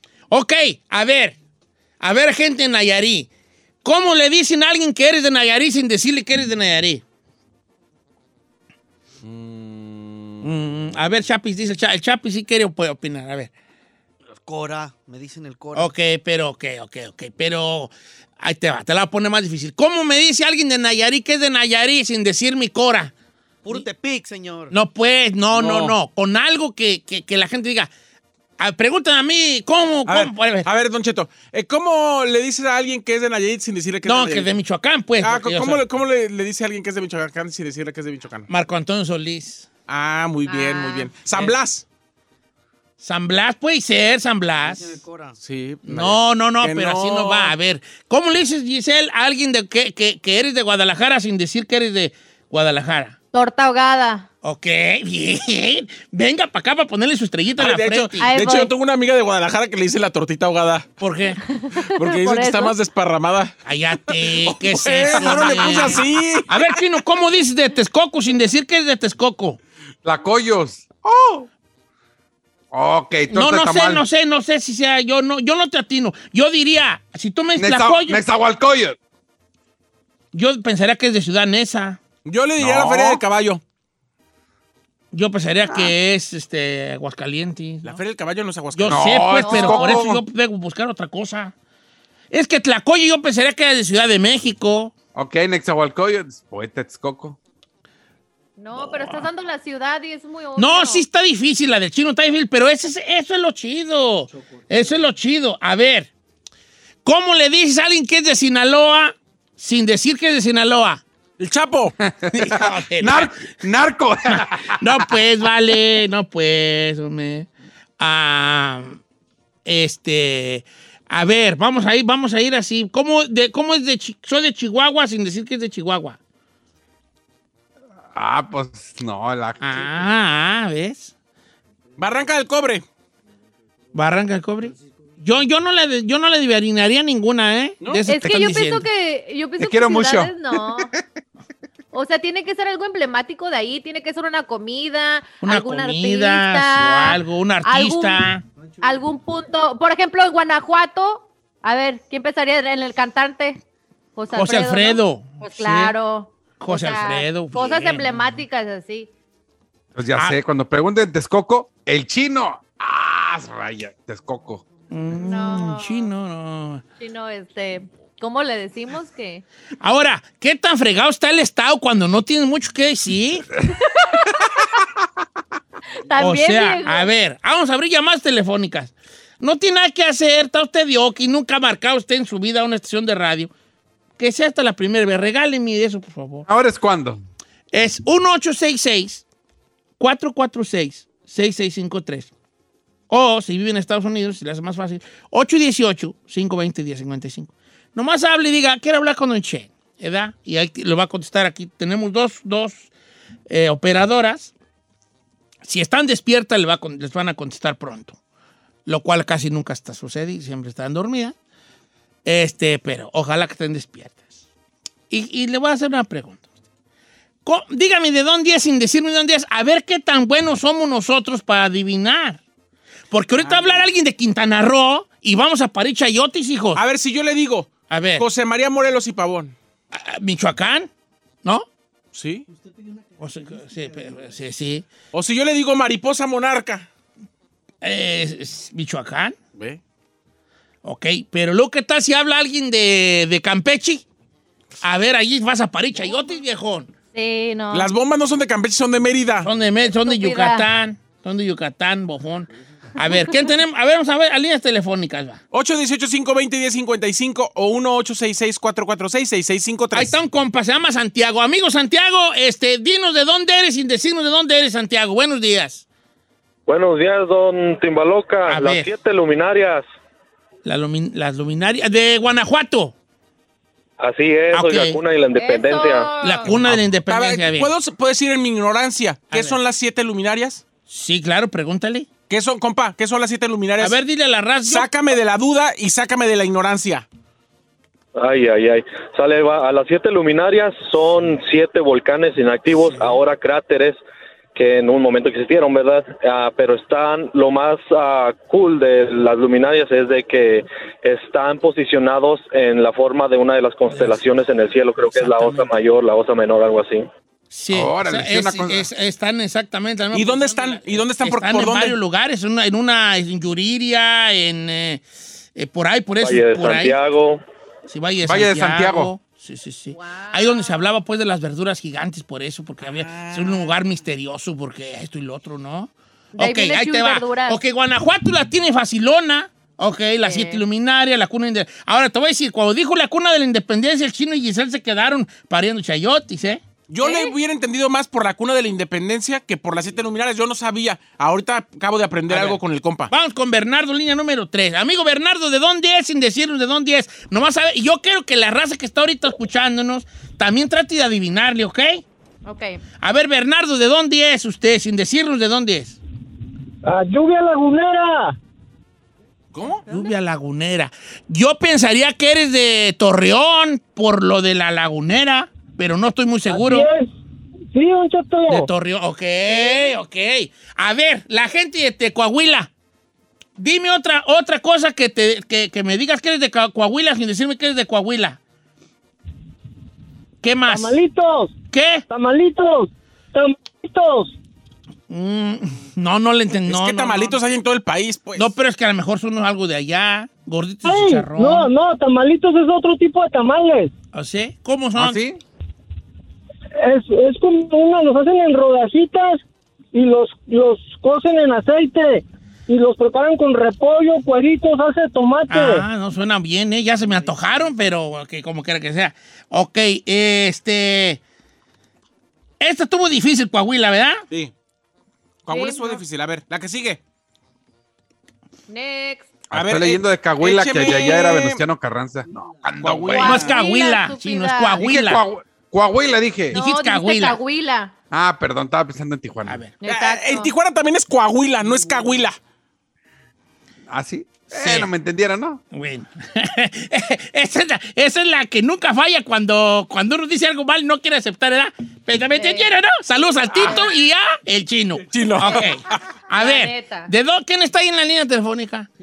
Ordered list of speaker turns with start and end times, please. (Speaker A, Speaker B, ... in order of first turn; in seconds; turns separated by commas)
Speaker A: 0.3-1.4, Speaker A: 2.0-3.3, Speaker A: 3.8-7.0, Speaker B: 9.2-10.4, Speaker A: 10.4-13.5, Speaker C: 14.3-15.9, Speaker A: 15.7-23.1, Speaker C: 23.6-24.7, Speaker A: 24.7-27.9, Speaker B: 25.5-25.9, Speaker A: 28.6-30.7, Speaker B: 30.1-34.5, Speaker A: 34.0-35.8, Speaker B: 35.2-38.5, Speaker A: 38.5-39.7, Speaker B: 39.9-41.8, Speaker D: 40.5-41.1, Speaker A: 43.0-45.0, Speaker C: 44.6-45.4, Speaker B: 45.4-47.5, Speaker A: 45.8-53.1, Speaker D: 53.3-54.3, Speaker A: 54.4-58.3, Speaker B: 57.6-60.9, Speaker D: 58.2-58.7, Speaker A: 61.0-61.4, Speaker D: 61.5-62.8, Speaker B: 61.9-63.5, Speaker A: 63.6-69.6, Speaker E: 64.4-66.0, Speaker B: 64.7-66.5, Speaker E: 70.0-71.5, Speaker E: 72.7-74.0, Speaker A: 73.3-78.2, Speaker E: 77.5-79.0, Speaker A: 80.3-82.0, Speaker B: 82.2-83.6, Speaker E: 82.6-83.2, Speaker A: 85.1-88.0, Speaker E: 85.6-85.9, Speaker B: 87.8-89.2, Speaker A: 88.7-91.5, Speaker E: 88.9-90.2, Speaker D: 89.4-90.1, Speaker A: 92.3-94.9, Speaker E: 95.1-97.4, Speaker D: 98.6-101.0, Speaker A: 98.8-99.3, Speaker A: 100.5-106.1, Speaker A: 107.0-111.0, Speaker B: 111.4-112.0, Speaker E: 112.0-115.2, Speaker A: 112.3-113.4, Speaker A: 114.3-117.5, Speaker A: 118.0-119.0, Speaker A: 119.7-126.2, Speaker E: 128.1-130.0, Speaker A: 129.6-131.1, Speaker B: 132.0-132.8, Speaker A: 133.9-138.8, Speaker D: 138.1-140.9, Speaker E: 139.6-140.9, Speaker D: 141.9-148.2, Speaker A: 145.4-148.4, Speaker D: 148.8-153.6, Speaker D: 154.2-159.1, Speaker A: 154.3-155.9, Speaker A: 156.6-158.2, Speaker E: 159.9-164.6, Speaker A: 164.9-166.8, Speaker D: 165.2-166.1, Speaker D: 167.0-169.4, Speaker A: 169.8-173.5, Speaker D: 173.8-174.3, Speaker D: 176.0-177.1, Speaker A: 176.2-183.5, Speaker A: 184.2-186.5, Speaker E: 186.5-187.2, Speaker A: 187.7-189.2, Speaker A: 190.0-192.3, Speaker A: 193.1-202.9, Speaker A: 203.5-204.5, Speaker A: 205.6-208.2, Speaker A: 208.8-211.3, Speaker A: 212.2-214.2, Speaker A: 215.1-216.4, Speaker A: 217.4-222.4, Speaker A: 223.1-226.8, Speaker B: 223.4-223.9, Speaker B: 226.8-229.5, Speaker A: 227.9-228.2, Speaker A: 229.9-230.9, Speaker B: 232.1-232.5, Speaker A: 233.2-234.8, Speaker B: 235.1-236.9, Speaker A: 237.8-239.3, Speaker B: 239.5-239.8, Speaker A: 240.8-244.0, Speaker A: 244.8-246.9, Speaker D: 247.1-247.9, Speaker B: 247.7-249.5, Speaker A: 249.4-255.4, Speaker D: 249.9-250.7, Speaker B: 255.5-260.1, Speaker A: 259.9-265.8, Speaker F: 266.7-269.8, Speaker A: 268.5-268.9, Speaker A: 270.6-272.9, Speaker F: 274.0-276.1, Speaker A: 274.5-275.0, Speaker D: 275.3-276.5, Speaker A: 276.2-277.7, Speaker B: 276.5-280.6, Speaker A: 279.3-279.6, Speaker A: 280.9-282.1, Speaker B: 282.3-284.0, Speaker A: 283.8-284.9, Speaker B: 284.6-287.1, Speaker F: 288.2-294.0, Speaker F: 294.5-307.1, Speaker A: 303.9-304.2, Speaker A: 305.0-305.7, Speaker A: 307.5-315.0, Speaker E: 307.7-308.9, Speaker B: 310.1-312.0, Speaker A: 315.6-316.9, Speaker F: 316.2-317.4, Speaker A: 317.9-336.6, Speaker E: 318.2-319.1, Speaker D: 319.9-320.9, Speaker B: 322.8-323.7, Speaker D: 326.3-327.6, Speaker D: 330.2-330.6, Speaker B: 336.9-343.1, Speaker D: 337.0-337.4, Speaker A: 342.3-352.0, Speaker D: 352.4-352.8, Speaker A: 353.0-356.0, Speaker G: 356.8-358.4, Speaker B: 359.5-359.9, Speaker A: 359.9-366.9, Speaker G: 366.5-367.1, Speaker G: 367.7-368.7, Speaker A: 368.5-372.7, Speaker A: 373.6-378.4, Speaker A: 380.4-381.0, Speaker G: 380.7-381.5, Speaker A: 381.7-382.1, Speaker G: 382.1-384.3, Speaker A: 385.1-387.4, Speaker B: 386.7-388.5, Speaker A: 388.4-391.7, Speaker G: 390.8-393.9, Speaker A: 394.1-395.2, Speaker E: 394.9-395.4, Speaker G: 396.8-399.4, Speaker G: 399.9-405.8, Speaker A: 405.5-411.2, Speaker A: 412.6-414.2, Speaker B: 415.4-417.0, Speaker D: 415.5-416.0, Speaker D: 418.7-419.3, Speaker E: 419.5-423.4, Speaker B: 419.5-421.6, Speaker D: 420.9-421.2, Speaker B: 422.8-423.6, Speaker D: 423.1-424.8, Speaker A: 423.2-425.2, Speaker E: 424.8-426.6, Speaker D: 426.5-427.9, Speaker A: 426.5-427.4, Speaker E: 428.1-429.6, Speaker A: 429.4-429.7, Speaker D: 429.8-430.5, Speaker B: 429.8-432.4, Speaker E: 433.9-435.6, Speaker A: 434.5-434.9, Speaker A: 435.7-448.9, Speaker D: 442.3-442.7, Speaker D: 443.6-443.9, Speaker B: 445.1-445.8, Speaker D: 446.3-447.1